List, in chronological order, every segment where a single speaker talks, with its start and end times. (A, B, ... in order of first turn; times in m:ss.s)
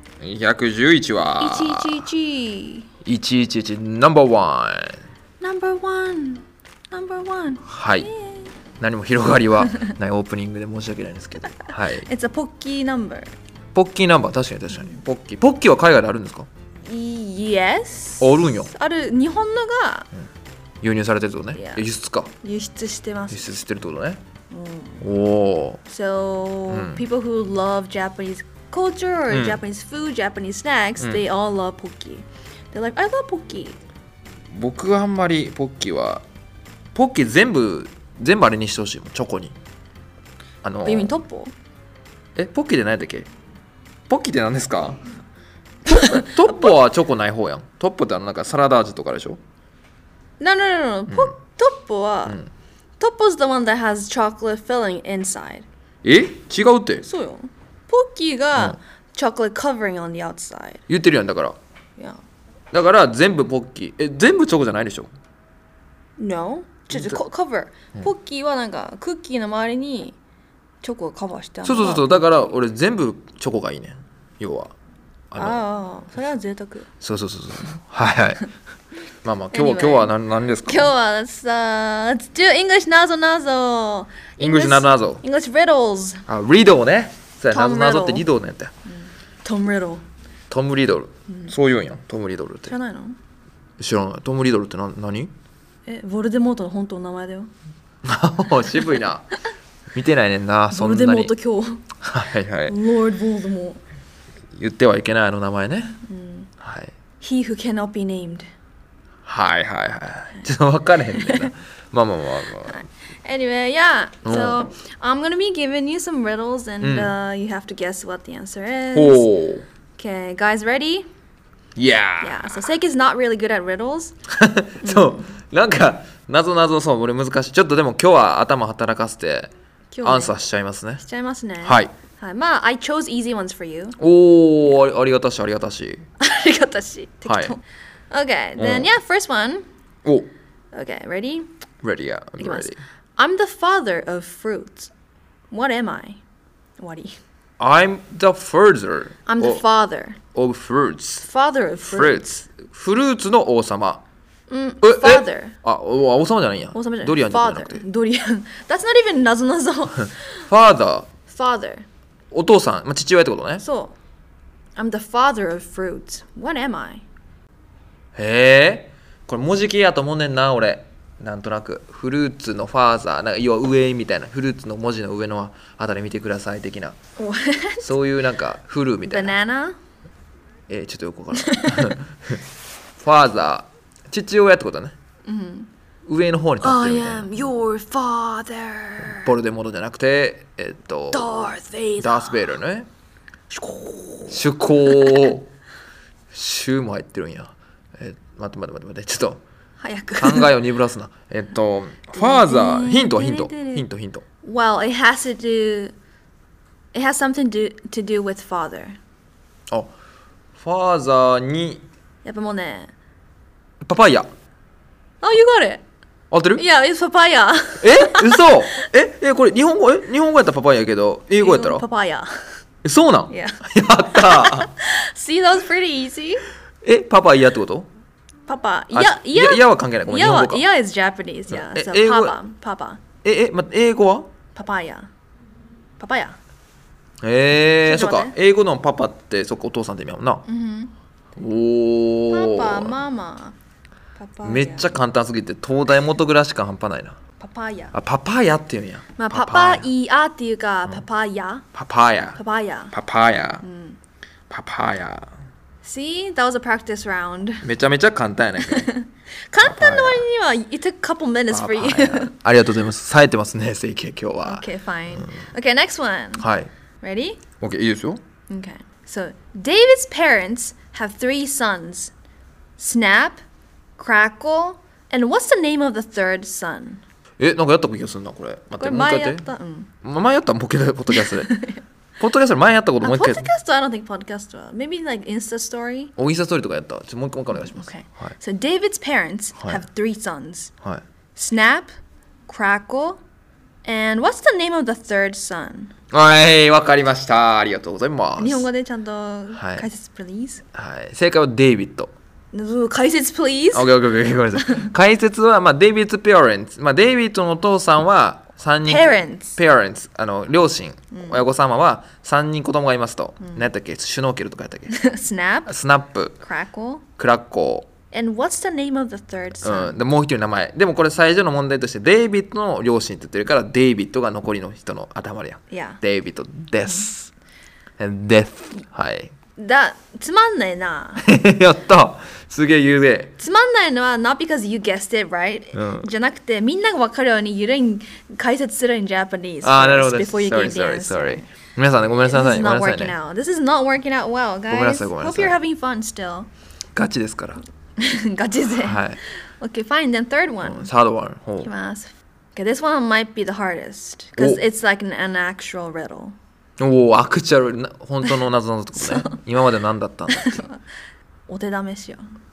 0:00.2-0:02.1 A
0:01.4-0:02.9 B
0:03.0-0:05.0 A
0:05.4-0:08.5 B
0:07.7-0:08.1 A
0:08.8-0:12.1 A
0:11.9-0:13.3 B
0:13.7-0:16.5 A
0:16.8-0:20.1 B
0:18.2-0:18.7 A
0:20.8-0:22.3 A
0:21.5-0:21.8 B
0:22.4-0:23.6 B
0:23.3-0:24.2 A
0:24.5-0:25.0 B
0:25.0-0:25.8 A
0:25.9-0:33.8 B
0:26.7-0:27.0 A
0:29.3-0:29.6 A
0:34.5-0:36.2 A
0:36.9-0:39.6 A
0:40.6-0:41.2 A
0:40.8-0:41.5 B
0:42.4-0:43.3 A
0:44.1-0:45.1 A
0:45.9-0:46.7 B
0:45.9-0:49.4 A
0:50.4-0:52.4 B
0:53.0-0:55.7 B
0:56.0-0:57.0 A
0:57.0-1:00.8 B
1:00.9-1:01.6 A
1:02.7-1:05.1 A
1:06.2-1:10.2 B
1:06.9-1:07.2 A
1:10.8-1:12.0 B
1:11.6-1:14.7 A
1:15.3-1:15.6 A
1:15.4-1:16.9 B
1:17.0-1:18.4 A
1:19.2-1:20.9 A
1:19.5-1:20.1 B
1:20.7-1:26.2 B
1:24.4-1:25.2 A
1:26.3-1:28.7 A
1:27.5-1:28.2 B
1:28.9-1:30.0 B
1:30.5-1:32.7 A
1:31.3-1:31.5 B
1:32.6-1:33.2 B
1:33.8-1:35.3 A
1:35.9-1:37.5 B
1:38.0-1:39.3 A
1:39.9-1:41.3 A
1:40.7-1:41.9 B
1:42.0-1:42.8 A
1:42.7-1:43.8 B
1:44.6-1:46.0 A
1:46.0-1:46.5 B
1:46.6-1:46.9 A
1:47.2-1:48.5 B
1:49.2-1:52.8 A
1:51.1-1:51.5 B
1:52.7-1:59.3 B
1:54.2-1:54.7 A
1:56.8-1:57.1 A
1:58.9-1:59.7 A
2:00.0-2:01.1 B
2:01.8-2:02.6 A
2:02.2-2:04.2 B
2:04.3-2:09.5 A
2:04.8-2:05.3 B
2:09.9-2:10.4 B
2:10.0-2:11.0 A
2:11.0-2:14.0 B
2:11.6-2:11.9 A
2:14.0-2:16.0 A
2:16.2-2:19.7 B
2:17.2-2:17.6 A
2:18.6-2:18.9 A
2:20.7-2:21.5 B
2:21.8-2:22.8 A
2:22.4-2:24.9 B
2:25.5-2:26.2 B
2:26.8-2:27.2 B
2:27.6-2:29.6 A
2:29.2-2:30.2 B
2:30.3-2:31.2 A
2:31.2-2:32.2 B
2:31.8-2:34.0 A
2:34.5-2:35.6 B
2:34.8-2:37.8 A
2:36.7-2:40.5 B
2:40.5-2:41.1 A
2:41.3-2:41.8 B
2:42.3-2:43.6 A
2:43.6-2:44.0 B
2:44.8-2:47.0 B
2:48.2-2:57.0 A
2:57.2-2:57.9 B
2:57.8-2:59.4 A
2:59.1-2:59.8 B
3:00.7-3:02.4 A
3:01.3-3:02.0 B
3:03.0-3:04.9 A
3:05.2-3:05.7 B
3:06.1-3:07.3 A
3:06.6-3:09.3 B
3:09.1-3:11.4 A
3:11.1-3:12.5 B
3:12.0-3:12.9 A
3:13.5-3:15.3 B
3:14.3-3:15.5 A
3:16.3-3:19.4 A
3:19.8-3:20.5 B
3:20.2-3:24.2 A
3:22.1-3:23.8 B
3:24.4-3:25.9 B
3:26.9-3:29.0 B
3:30.6-3:31.8 A
3:32.2-3:32.9 B
3:33.8-3:34.3 A
3:35.2-3:35.8 B
3:36.3-3:36.6 A
3:36.6-3:38.9 B
3:37.8-3:41.8 A
3:41.4-3:42.3 B
3:42.8-3:44.7 A
3:43.3-3:46.4 B
3:46.8-3:47.9 A
3:48.5-3:53.0 B
3:48.9-3:50.7 A
3:51.5-3:52.4 A
3:53.2-3:54.3 A
3:54.5-3:55.1 B
3:56.0-3:56.4 B
3:57.2-4:00.4 A
3:57.8-3:58.3 B
4:00.4-4:00.9 B
4:01.4-4:02.9 A
4:02.3-4:03.5 B
4:04.2-4:05.0 B
4:04.4-4:07.2 A
4:07.4-4:08.0 B
4:07.9-4:09.9 A
4:09.2-4:11.6 B
4:11.7-4:12.4 A
4:12.4-4:12.9 B
4:12.9-4:13.6 A
4:13.6-4:14.0 B
4:14.5-4:15.3 A
4:15.8-4:17.7 B
4:17.6-4:18.9 A
4:18.6-4:22.4 B
4:19.6-4:20.3 A
4:21.5-4:24.7 A
4:24.4-4:26.5 B
4:26.4-4:26.7 A
4:27.0-4:27.4 B
4:27.6-4:28.2 A
4:28.5-4:32.1 B
4:32.8-4:33.4 B
4:34.0-4:37.0 B
4:37.4-4:39.4 A
4:38.8-4:39.9 B
4:40.0-4:41.6 A
4:41.1-4:41.8 B
4:42.2-4:43.5 A
4:43.0-4:46.1 B
4:46.2-4:48.4 A
4:47.5-4:50.7 B
4:51.4-4:51.9 B
4:52.5-4:53.2 B
4:53.8-4:55.9 B
4:56.1-4:58.7 A
4:58.4-5:00.6 B
4:59.5-4:59.9 A
5:00.7-5:02.1 A
5:02.5-5:03.9 B
5:03.7-5:15.0 A
5:04.6-5:04.9 B
5:08.9-5:09.6 B
5:11.1-5:11.4 B
5:13.4-5:13.7 B
5:14.9-5:15.8 B
5:15.7-5:16.4 A
5:16.4-5:17.0 B
5:17.2-5:17.9 A
5:18.1-5:20.0 B
5:19.6-5:27.3 A
5:25.7-5:26.0 B
5:28.0-5:29.3 A
5:29.6-5:31.2 B
5:31.2-5:33.3 A
5:33.4-5:41.5 B
5:35.7-5:36.1 A
5:39.6-5:43.2 A
5:42.2-5:46.5 B
5:44.7-5:45.6 A
5:47.0-5:47.6 A
5:48.0-5:50.9 B
5:48.8-5:49.2 A
5:50.6-5:51.7 A
5:51.6-5:56.4 B
5:54.4-5:54.6 A
5:56.8-6:00.7 A
5:59.0-5:59.4 B
6:00.3-6:00.8 B
6:01.5-6:02.2 B